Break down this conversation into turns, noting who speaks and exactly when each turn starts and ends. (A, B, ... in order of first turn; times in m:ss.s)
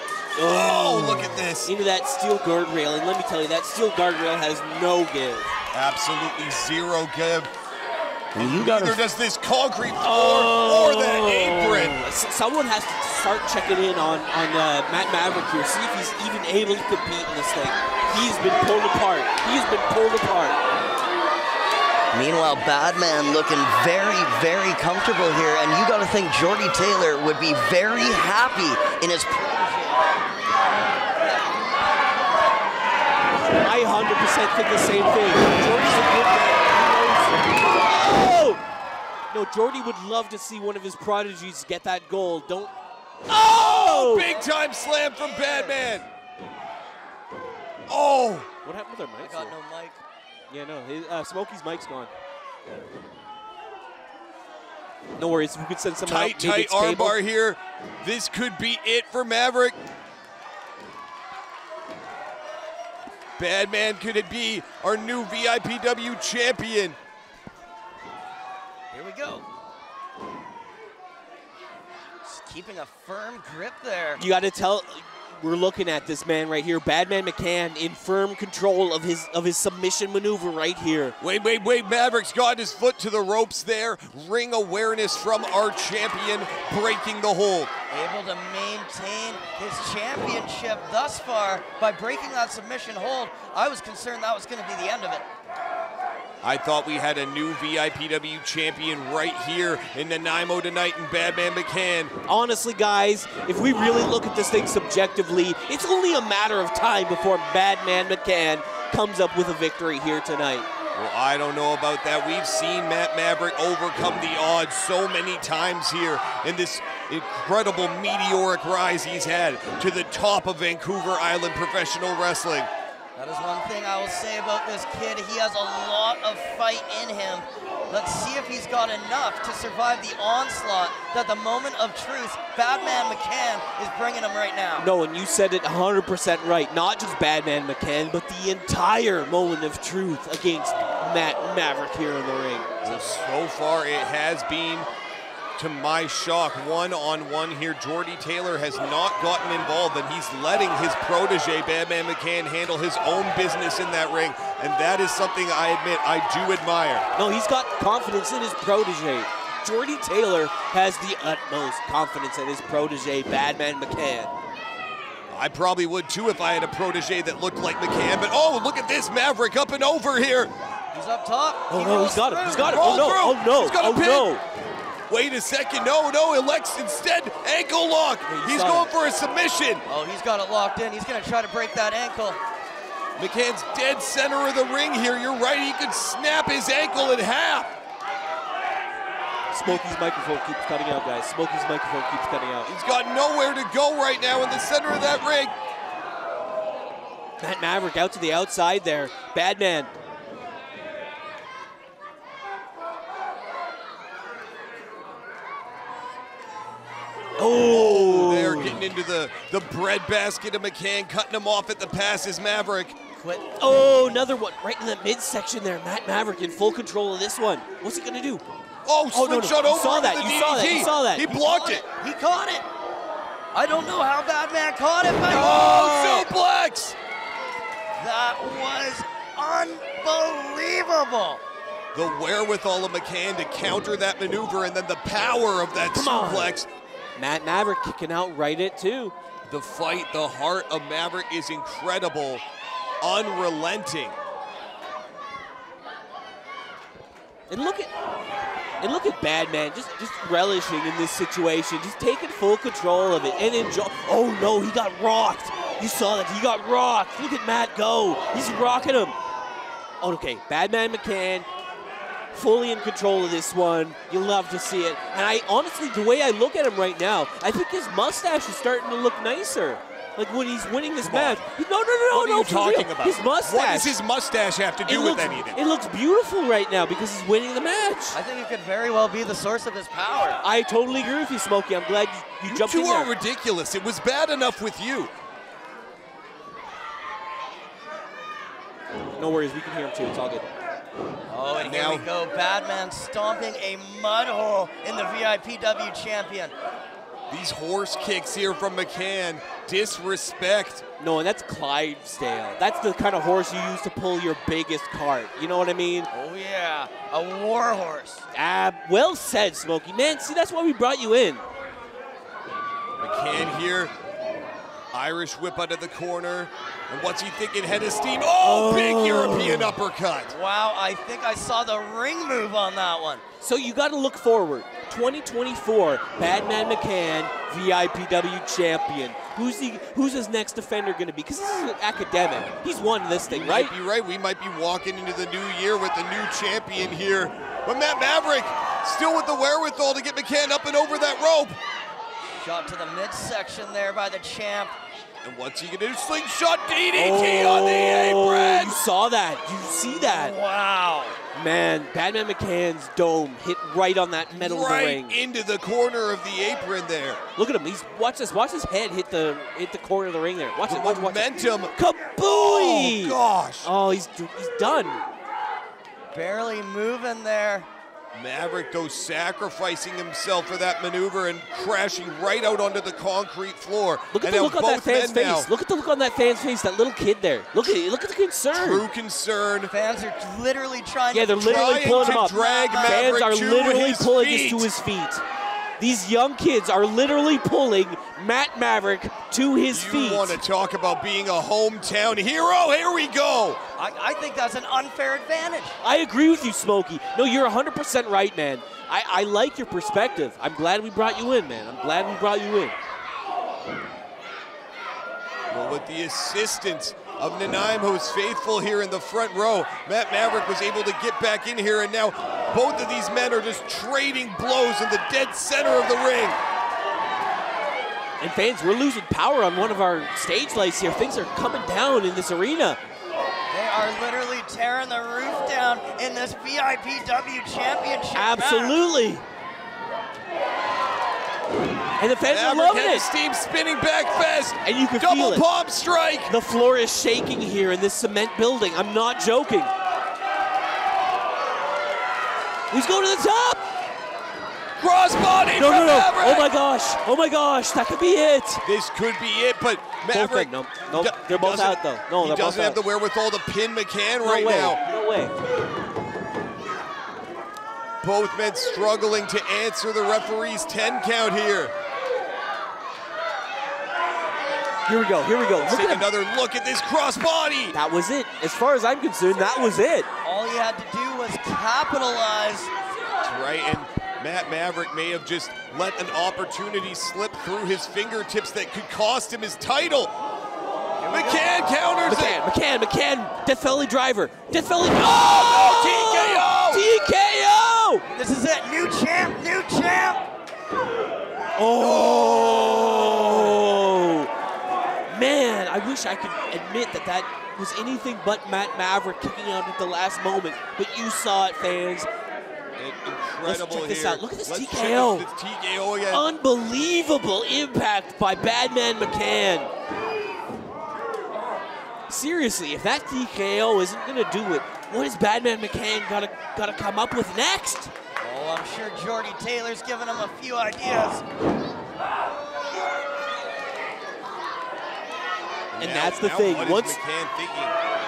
0:00.4-0:05.5 A
0:00.4-0:01.7 B
0:05.7-0:07.5 B
0:08.4-0:09.0 C
0:08.4-0:12.0 B
0:10.0-0:20.6 A
0:22.1-0:31.9 C
0:33.6-0:38.6 A
0:39.3-0:42.7 A
0:43.3-0:44.3 A
0:43.3-0:46.0 B
0:45.2-0:45.8 C
0:47.9-0:48.5 B
0:48.6-0:49.6 A
0:49.2-0:50.0 C
0:50.5-0:52.1 A
0:55.2-0:57.2 A
0:56.1-0:59.8 B
1:03.4-1:07.0 B
1:08.9-1:09.4 C
1:12.2-1:14.2 C
1:14.2-1:21.2 A
1:21.2-1:27.7 B
1:27.9-1:35.2 C
1:36.4-1:42.1 B
1:42.3-1:50.7 A
1:51.0-2:02.7 B
2:03.2-2:14.8 C
2:14.8-2:23.1 A
2:22.8-2:24.9 B
2:25.6-2:37.1 B
2:37.2-2:44.3 A
2:45.3-2:50.5 B
2:50.9-2:53.1 C
2:51.7-2:54.4 A
2:52.6-2:54.3 B
2:55.1-2:59.8 B
2:58.3-2:58.9 A
2:59.9-3:02.4 C
3:03.2-3:07.7 B
3:09.5-3:12.7 A
3:12.7-3:15.5 B
3:17.4-3:19.9 A
3:27.4-3:28.8 A
3:27.6-3:33.0 B
3:33.2-3:33.5 C
3:33.6-3:38.4 A
3:38.8-3:41.8 B
3:39.1-3:41.3 A
3:41.2-3:42.7 C
3:43.5-3:46.3 C
3:45.3-3:47.0 B
3:48.0-3:51.4 C
3:52.0-3:56.7 B
3:55.9-3:56.6 A
3:57.2-3:59.1 A
3:59.5-4:02.4 B
4:03.0-4:04.2 B
4:07.5-4:07.9 A
4:08.8-4:19.2 A
4:20.0-4:21.5 A
4:22.3-4:34.0 A
4:31.0-4:31.5 B
4:32.1-4:35.6 B
4:34.9-4:38.2 A
4:38.1-4:40.4 C
4:40.4-4:43.1 A
4:42.4-4:45.1 B
4:49.2-4:50.4 A
4:51.3-4:56.5 C
4:51.6-4:52.1 B
4:57.3-5:00.8 B
5:01.0-5:06.1 A
5:06.1-5:08.2 C
5:08.3-5:11.4 A
5:13.0-5:13.9 B
5:14.9-5:20.3 B
5:18.4-5:19.8 A
5:20.3-5:23.2 C
5:23.4-5:33.7 A
5:33.3-5:41.6 B
5:42.4-5:44.8 C
5:45.2-5:48.8 B
5:47.0-5:50.4 A
5:49.9-5:51.2 C
5:51.3-5:55.2 A
5:54.3-5:57.2 B
5:57.4-6:05.0 A
6:00.7-6:01.7 B
6:02.4-6:03.7 B
6:06.1-6:07.7 C
6:08.1-6:15.5 B
6:14.1-6:18.9 A
6:18.5-6:19.7 B
6:19.7-6:23.1 C
6:21.1-6:25.2 A
6:21.4-6:24.7 B
6:25.8-6:30.4 A
6:29.7-6:33.6 B
6:33.8-6:35.8 C
6:35.8-6:42.8 A
6:45.5-6:56.4 B
6:58.2-7:02.8 A
7:03.5-7:08.8 C
7:08.1-7:09.2 A
7:12.0-7:13.1 A
7:12.3-7:16.3 B
7:14.6-7:15.4 A
7:16.3-7:19.7 A
7:22.7-7:23.6 A
7:24.8-7:26.5 B
7:25.6-7:28.6 A
7:28.6-7:34.8 B
7:30.1-7:32.8 A
7:34.2-7:35.4 A
7:38.0-7:41.7 B
7:44.9-7:46.1 A
7:45.6-7:47.8 B
7:47.7-7:50.1 A
7:50.2-7:52.7 C
7:53.2-8:00.1 B
8:01.0-8:01.5 C
8:01.1-8:02.4 B
8:02.1-8:08.1 A
8:05.0-8:06.9 B
8:08.2-8:10.2 C
8:11.6-8:14.3 A
8:11.8-8:12.4 B
8:15.1-8:22.1 A
8:22.8-8:26.3 B
8:23.4-8:25.3 A
8:26.1-8:29.7 A
8:32.1-8:37.9 A
8:38.2-8:41.2 C
8:45.7-8:47.8 B
8:45.8-8:47.0 A